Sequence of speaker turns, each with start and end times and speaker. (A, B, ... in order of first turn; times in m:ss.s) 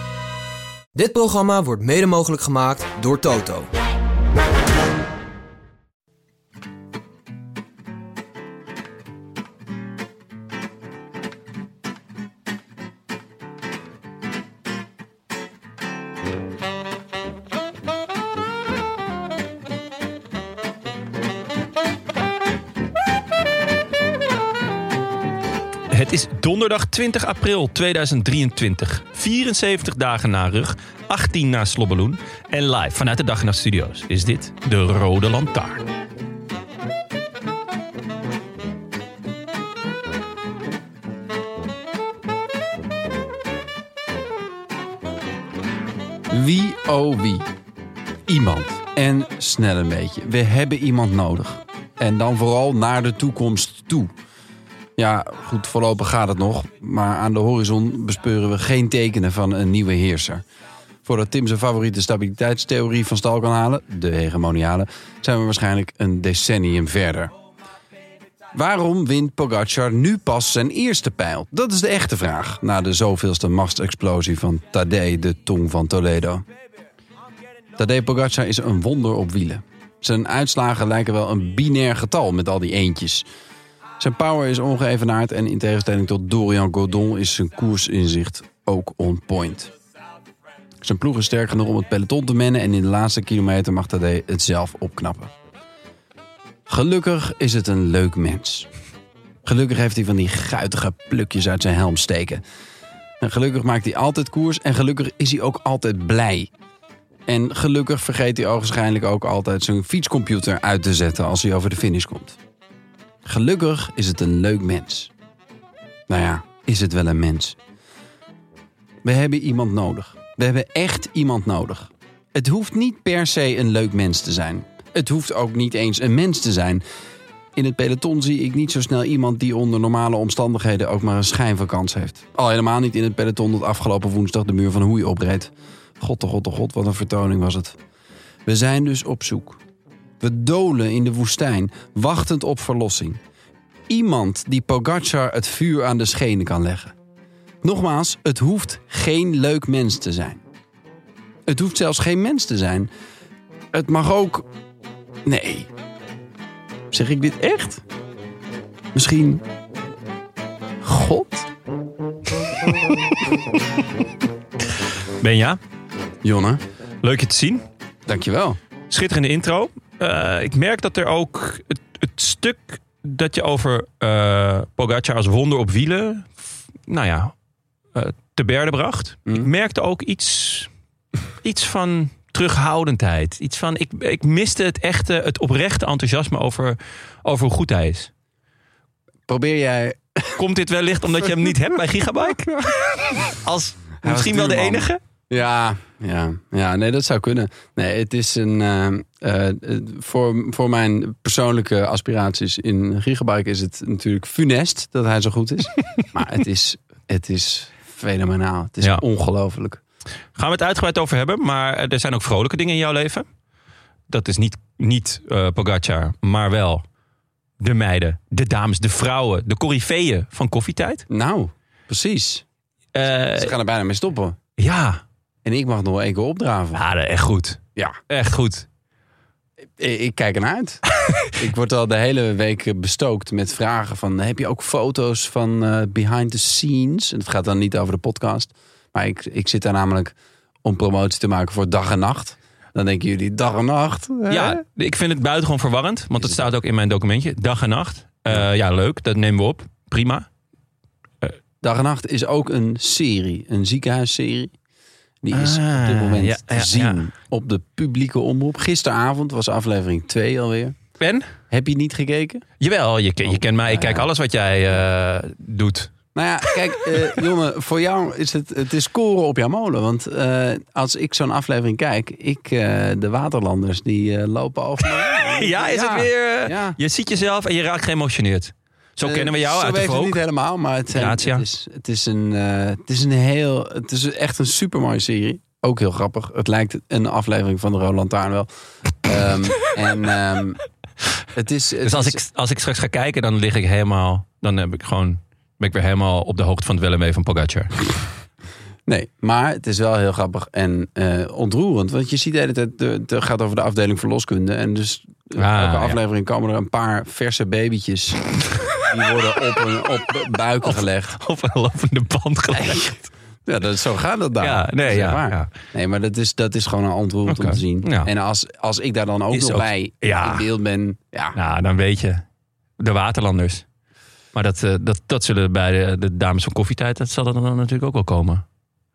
0:00.9-0:03.7 A
0:25.9-0:35.8 B
0:46.3-0:47.5 C
0:48.3-0:54.1 C
0:55.0-1:00.4 C
1:01.0-1:07.3 C
1:08.5-1:16.4 C
1:17.8-1:23.3 C
1:24.0-1:29.7 C
1:30.8-1:35.3 C
1:36.7-1:38.7 C
1:39.4-1:42.4 C
1:43.2-1:46.5 C
1:47.3-1:52.4 C
1:53.2-1:55.1 C
1:56.1-1:57.6 C
1:59.0-2:06.8 C
2:07.6-2:17.8 C
2:18.4-2:19.6 C
2:20.2-2:23.2 C
2:23.9-2:26.9 C
2:27.6-2:30.4 C
2:31.4-2:32.9 C
2:33.7-2:34.5 C
2:35.2-2:35.7 C
2:36.9-2:37.8 C
2:38.9-2:39.4 C
2:40.8-2:41.5 C
2:45.2-2:45.6 B
2:46.2-2:46.6 C
2:47.0-2:47.6 B
2:48.1-2:48.6 C
2:48.9-2:57.3 B
2:57.9-3:00.7 B
3:01.4-3:08.1 B
3:09.3-3:10.4 C
3:10.4-3:15.0 B
3:14.0-3:29.8 C
3:30.4-3:33.2 B
3:34.1-3:36.8 B
3:37.6-3:41.0 B
3:41.1-3:42.4 C
3:42.9-3:43.5 B
3:43.3-3:44.4 C
3:44.6-3:45.0 B
3:45.4-3:46.8 C
3:46.7-3:48.7 B
3:49.8-3:50.8 C
3:51.4-4:04.6 C
4:04.3-4:10.2 B
4:06.2-4:06.4 C
4:11.6-4:14.5 C
4:15.2-4:20.8 C
4:15.3-4:17.0 B
4:21.0-4:21.3 B
4:21.5-4:22.4 C
4:22.6-4:25.9 B
4:23.6-4:24.1 C
4:26.1-4:36.8 C
4:35.0-4:40.2 B
4:39.0-4:48.5 C
4:40.9-4:41.4 B
4:49.0-4:50.6 C
4:51.3-4:52.2 C
4:51.8-4:57.8 B
4:58.9-5:11.2 C
5:05.4-5:06.0 B
5:10.6-5:13.0 B
5:12.5-5:21.4 C
5:14.4-5:15.5 B
5:17.3-5:18.1 B
5:19.3-5:20.5 B
5:21.4-5:22.2 B
5:22.8-5:23.6 B
5:24.3-5:28.4 B